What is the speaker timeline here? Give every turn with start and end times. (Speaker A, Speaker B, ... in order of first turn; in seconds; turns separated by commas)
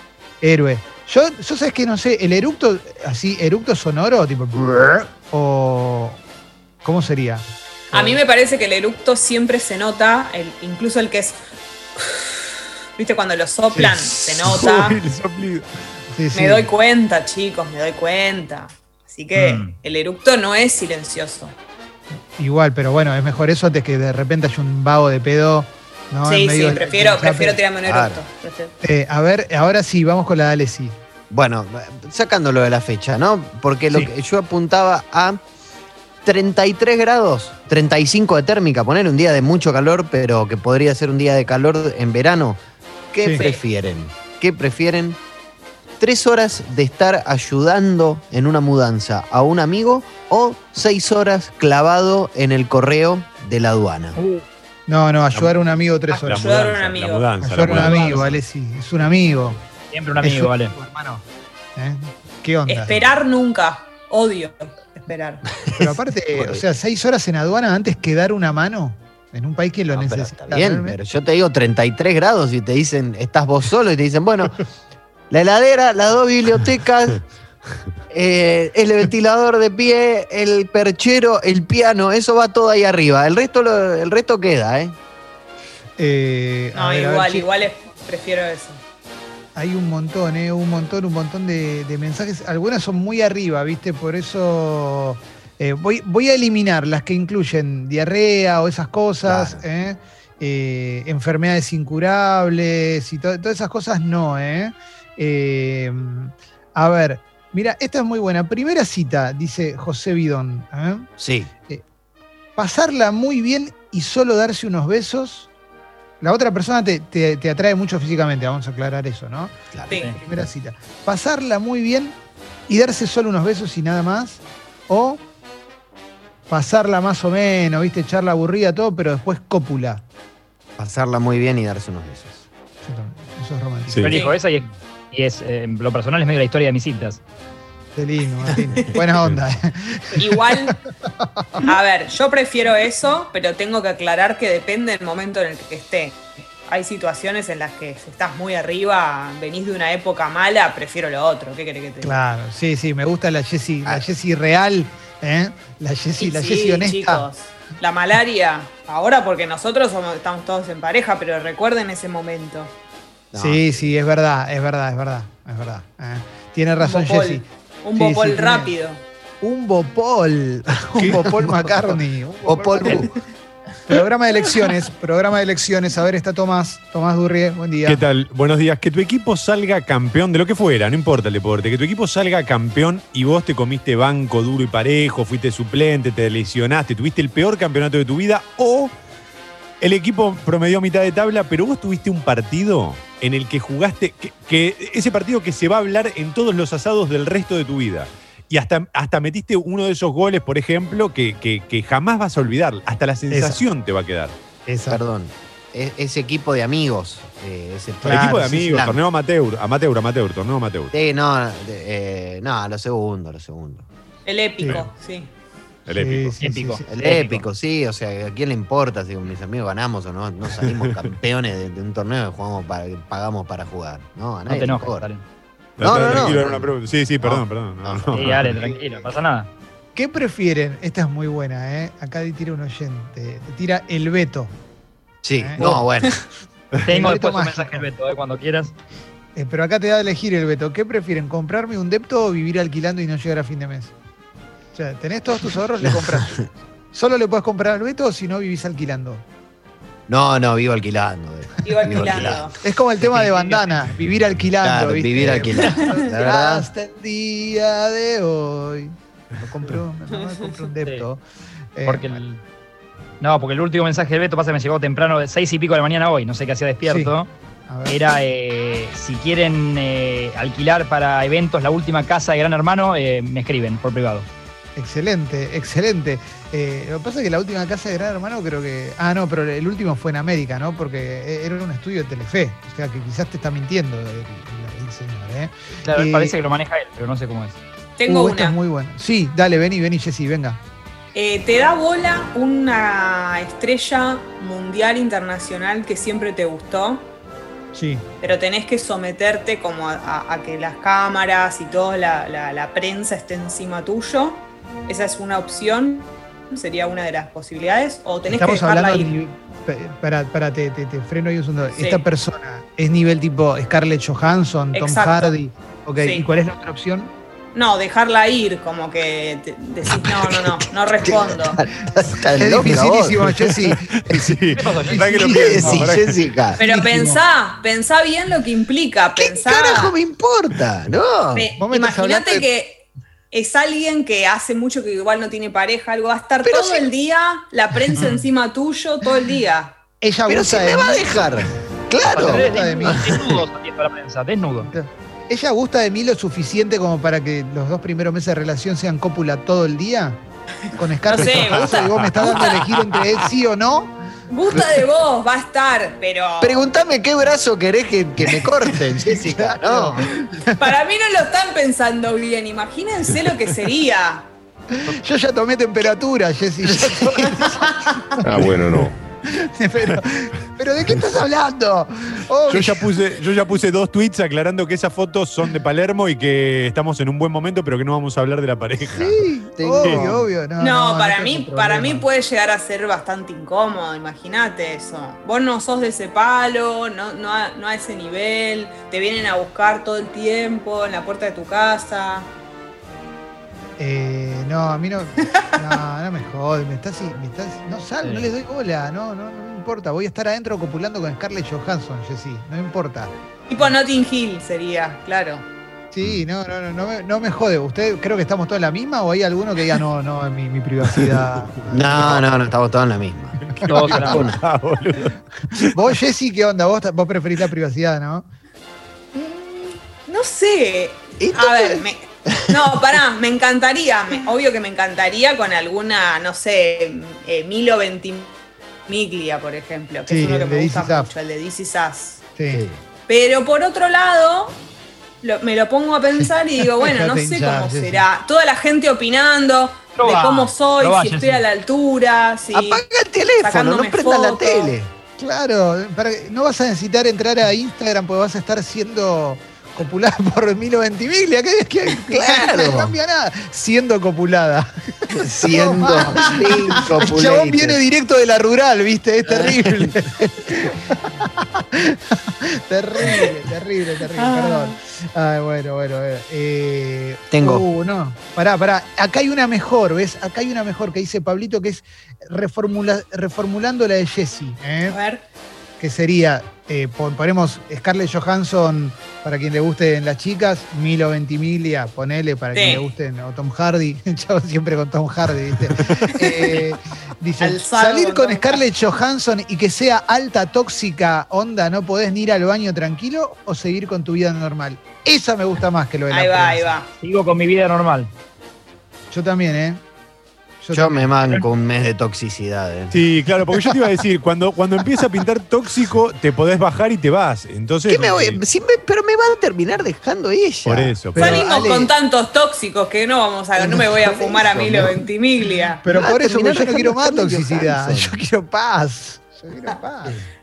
Speaker A: 0.4-6.2, Speaker A: 6.8-7.4, Speaker B: 7.9-11.4, Speaker B: 12.0-15.0, Speaker A: 13.7-14.0, Speaker C: 14.1-15.7, Speaker A: 16.1-16.7, Speaker B: 16.3-21.5, Speaker D: 19.4-19.7, Speaker A: 22.4-27.6, Speaker B: 26.2-28.7, Speaker E: 27.9-28.2, Speaker A: 28.8-31.0, Speaker E: 31.3-35.4, Speaker E: 36.2-42.6, Speaker E: 43.1-45.2, Speaker B: 43.3-43.6, Speaker E: 46.0-54.2, Speaker D: 54.2-54.4, Speaker A: 54.9-56.4, Speaker B: 56.1-58.2, Speaker C: 56.2-58.4, Speaker A: 57.4-59.6, Speaker D: 59.9-60.7, Speaker A: 60.2-61.2, Speaker A: 61.8-63.1, Speaker B: 62.6-65.5, Speaker E: 65.6-66.6, Speaker A: 65.7-71.0, Speaker E: 69.9-74.6, Speaker E: 75.3-77.2, Speaker E: 78.1-85.0, Speaker A: 86.0-87.5, Speaker B: 86.7-88.8, Speaker A: 89.5-111.1, Speaker E: 99.2-99.6, Speaker E: 111.2-111.5, Speaker A: 112.6-115.5, Speaker A: 116.2-122.2, Speaker A: 122.7-125.2, Speaker A: 126.5-130.0, Speaker E: 130.8-132.4, Speaker A: 132.8-134.2, Speaker C: 133.9-134.2, Speaker D: 134.0-137.2, Speaker B: 134.1-134.4, Speaker A: 137.9-141.7, Speaker B: 140.2-140.8, Speaker B: 141.6-152.2, Speaker A: 152.0-157.2, Speaker B: 156.2-162.7, Speaker E: 163.3-163.9, Speaker A: 163.4-168.7, Speaker B: 166.8-169.0, Speaker A: 169.4-173.1, Speaker E: 171.0-171.9, Speaker E: 172.4-173.1, Speaker A: 173.9-178.0, Speaker C: 177.8-188.9, Speaker C: 189.8-204.3, Speaker A: 203.3-203.6, Speaker A: 204.7-205.0, Speaker E: 204.9-209.0, Speaker A: 208.0-208.6, Speaker C: 208.1-210.9, Speaker E: 210.9-213.8, Speaker B: 214.3-215.3, Speaker C: 215.9-216.4, Speaker A: 215.9-216.9, Speaker D: 216.4-217.4, Speaker E: 216.9-225.1, Speaker C: 220.6-221.1, Speaker D: 224.5-225.2, Speaker C: 225.8-228.6, Speaker E: 225.8-228.9, Speaker D: 228.1-229.5, Speaker A: 229.9-234.5, Speaker E: 235.2-236.2, Speaker A: 235.4-235.8, Speaker D: 236.9-238.7, Speaker A: 236.9-237.9, Speaker A: 239.3-243.9, Speaker A: 244.7-249.2, Speaker E: 245.8-246.4, Speaker E: 250.1-252.5, Speaker B: 251.6-252.6, Speaker A: 252.6-261.2, Speaker D: 253.0-253.6, Speaker E: 254.6-256.7, Speaker B: 255.6-256.1, Speaker B: 260.2-260.5, Speaker A: 261.8-262.2, Speaker D: 261.9-262.4, Speaker D: 263.2-267.3, Speaker A: 266.9-267.1, Speaker A: 267.7-268.0, Speaker D: 267.9-274.3, Speaker A: 274.8-286.4, Speaker D: 285.8-287.6, Speaker B: 288.0-288.6, Speaker A: 288.1-290.6, Speaker B: 291.1-297.1, Speaker A: 297.7-298.1, Speaker B: 298.2-309.1, Speaker A: 308.3-317.1, Speaker B: 311.8-312.0, Speaker B: 314.7-315.4, Speaker B: 316.0-316.3, Speaker B: 317.5-321.6, Speaker E: 320.0-323.2, Speaker A: 322.4-325.9, Speaker C: 323.3-326.3, Speaker D: 324.6-325.2, Speaker E: 325.2-326.6, Speaker A: 326.6-327.2, Speaker B: 326.6-330.0, Speaker E: 329.1-331.5, Speaker B: 331.3-339.8, Speaker A: 331.6-332.5, Speaker E: 336.4-336.9, Speaker D: 337.9-338.2, Speaker A: 340.0-341.3, Speaker E: 340.3-343.4, Speaker D: 342.1-344.7, Speaker A: 342.1-343.3, Speaker A: 344.6-350.2, Speaker B: 350.7-352.8, Speaker A: 350.8-354.0, Speaker C: 351.2-352.6, Speaker B: 354.3-356.7, Speaker E: 356.4-360.1, Speaker A: 359.0-360.6, Speaker B: 360.6-364.3, Speaker A: 364.7-372.9, Speaker E: 366.6-367.5, Speaker B: 367.4-367.9, Speaker C: 368.3-369.0, Speaker E: 368.3-368.9, Speaker C: 372.5-379.2, Speaker A: 378.9-382.1, Speaker E: 379.6-380.3, Speaker C: 379.8-380.1, Speaker B: 380.6-392.3, Speaker A: 393.8-403.8, Speaker D: 398.0-398.3, Speaker B: 403.5-405.4, Speaker A: 405.9-412.5, Speaker E: 411.7-414.4, Speaker C: 413.5-415.9, Speaker D: 413.7-414.3, Speaker A: 415.7-418.3, Speaker B: 419.1-428.4, Speaker E: 421.2-422.8, Speaker B: 428.9-432.2, Speaker A: 430.1-431.1, Speaker A: 432.4-432.6, Speaker E: 432.5-432.8, Speaker B: 433.1-434.6, Speaker B: 435.2-442.8, Speaker A: 436.8-438.1, Speaker D: 440.0-441.4, Speaker E: 442.5-444.9, Speaker B: 443.4-444.7, Speaker A: 445.2-475.0, Speaker E: 451.9-452.9, Speaker E: 455.1-457.8, Speaker B: 456.3-456.8, Speaker E: 459.2-460.7, Speaker B: 464.1-464.8, Speaker E: 467.3-467.6, Speaker B: 474.9-475.2, Speaker A: 475.8-496.8, Speaker B: 482.5-482.9, Speaker B: 486.2-486.6, Speaker B: 487.4-488.6, Speaker B: 496.1-496.9, Speaker D: 497.0-498.1, Speaker A: 499.1-499.8, Speaker A: 500.6-501.4, Speaker E: 500.7-503.0, Speaker C: 502.9-508.4, Speaker E: 507.9-511.0, Speaker C: 510.6-511.5, Speaker A: 511.1-511.9, Speaker B: 511.1-515.8, Speaker E: 513.6-515.0, Speaker A: 515.8-520.2, Speaker E: 515.9-518.2